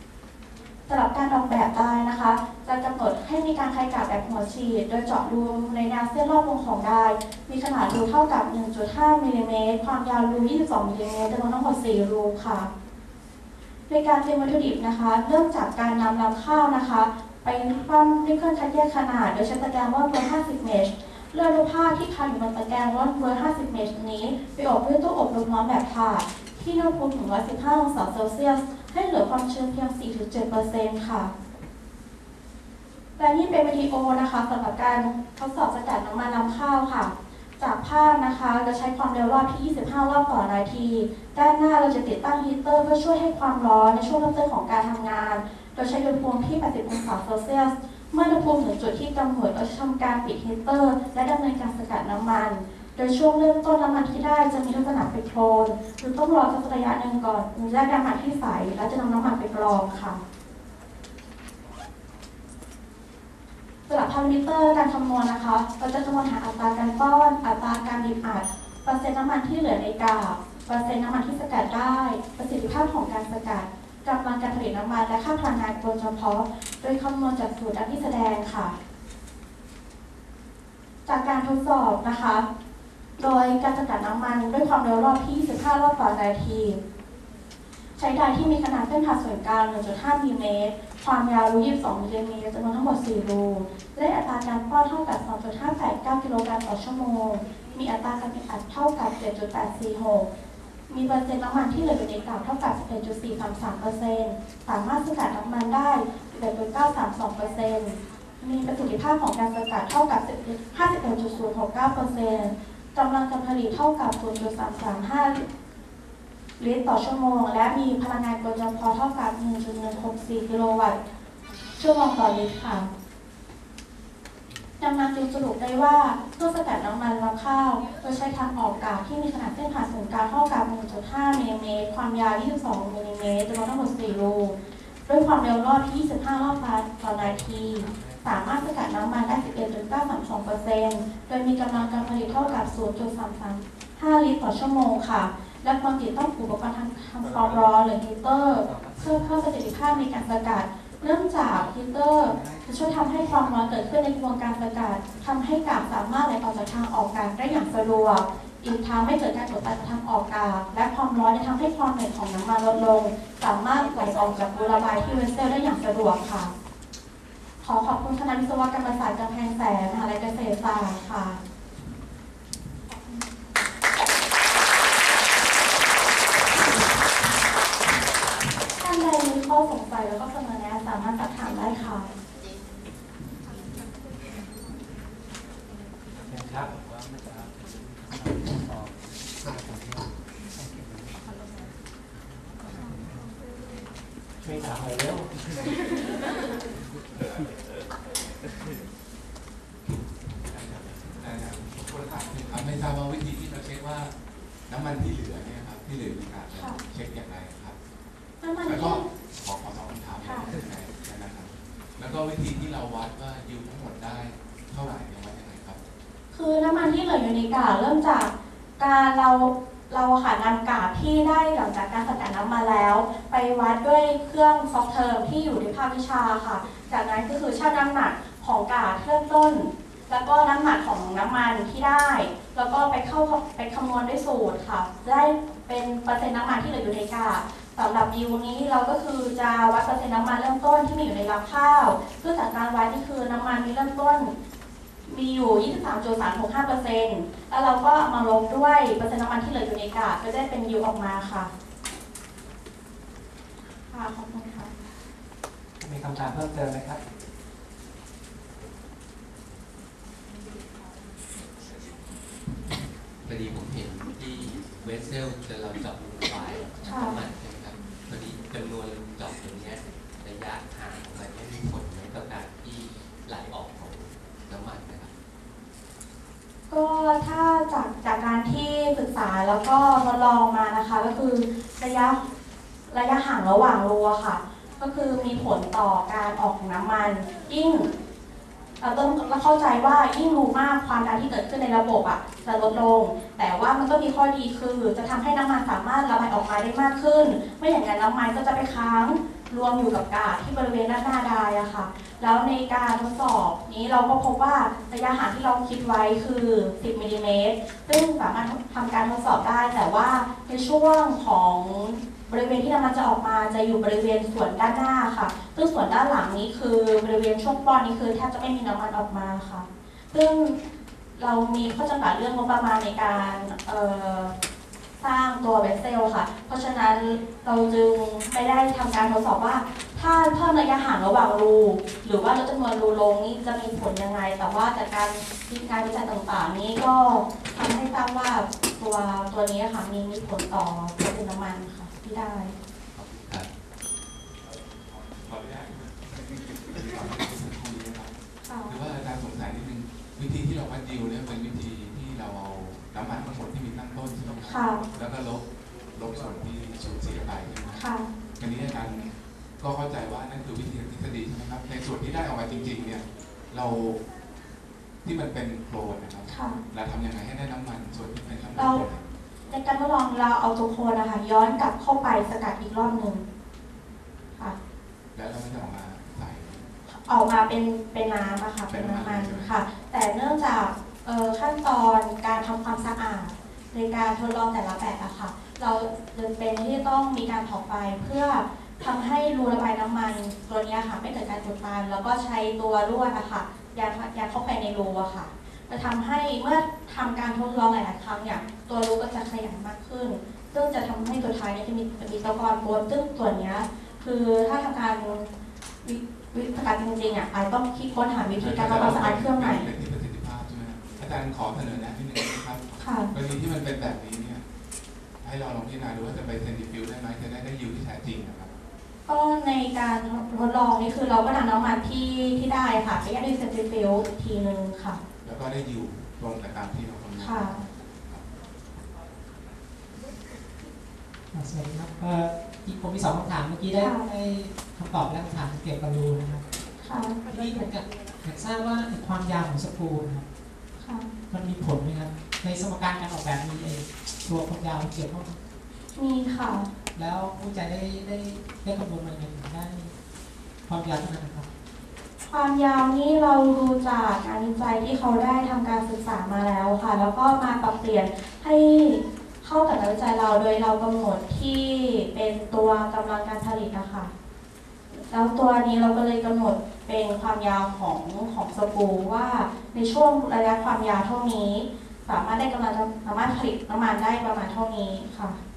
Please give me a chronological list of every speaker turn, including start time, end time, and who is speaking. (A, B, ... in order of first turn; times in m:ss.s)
0:00.9-0:12.7 A
0:13.9-0:31.3 A
0:33.2-1:00.2 A
1:03.9-1:18.7 A
1:21.0-1:22.4 A
1:23.2-1:26.8 A
1:28.0-1:40.3 A
1:40.9-1:55.4 A
1:56.6-2:01.0 A
2:01.8-2:02.9 A
2:04.8-2:14.6 A
2:15.1-2:46.5 A
2:47.6-2:51.4 A
2:58.8-3:02.1 A
3:06.3-3:06.7 B
3:14.4-3:15.3 B
3:19.8-3:24.1 C
3:24.7-3:27.8 C
3:28.4-3:29.0 A
3:28.6-3:35.8 C
3:36.3-4:04.3 A
4:05.0-4:11.5 A
4:13.9-4:14.7 A
4:15.8-4:17.0 B
4:23.2-4:35.1 D
4:26.8-4:27.2 A
4:36.7-4:42.2 A
4:42.9-4:47.9 A
4:48.8-5:20.6 A
5:21.2-5:24.3 A
5:25.0-5:42.5 A
5:42.9-5:43.5 D
5:44.9-5:46.2 C
5:46.7-5:48.1 C
5:48.4-5:48.8 A
5:48.6-5:57.8 C
5:54.5-5:54.8 A
5:57.8-5:58.1 A
5:58.4-6:04.0 C
6:05.0-6:09.1 C
6:06.3-6:06.6 A
6:08.6-6:08.8 A
6:09.5-6:13.2 A
6:15.1-6:16.6 C
6:16.9-6:45.3 A
6:18.7-6:19.5 C
6:45.8-6:49.7 A
6:48.3-6:54.4 C
6:52.8-6:53.1 A
6:55.2-6:58.5 C
6:59.0-7:05.0 A
7:05.2-7:08.2 C
7:07.2-7:07.6 A
7:11.3-7:16.4 E
7:13.8-7:14.0 A
7:16.8-7:17.2 A
7:17.3-7:20.2 E
7:20.8-7:21.1 A
7:21.3-7:25.4 E
7:25.9-7:26.7 A
7:26.9-7:29.9 E
7:30.6-7:31.5 E
7:32.2-7:44.1 A
7:45.0-7:55.4 A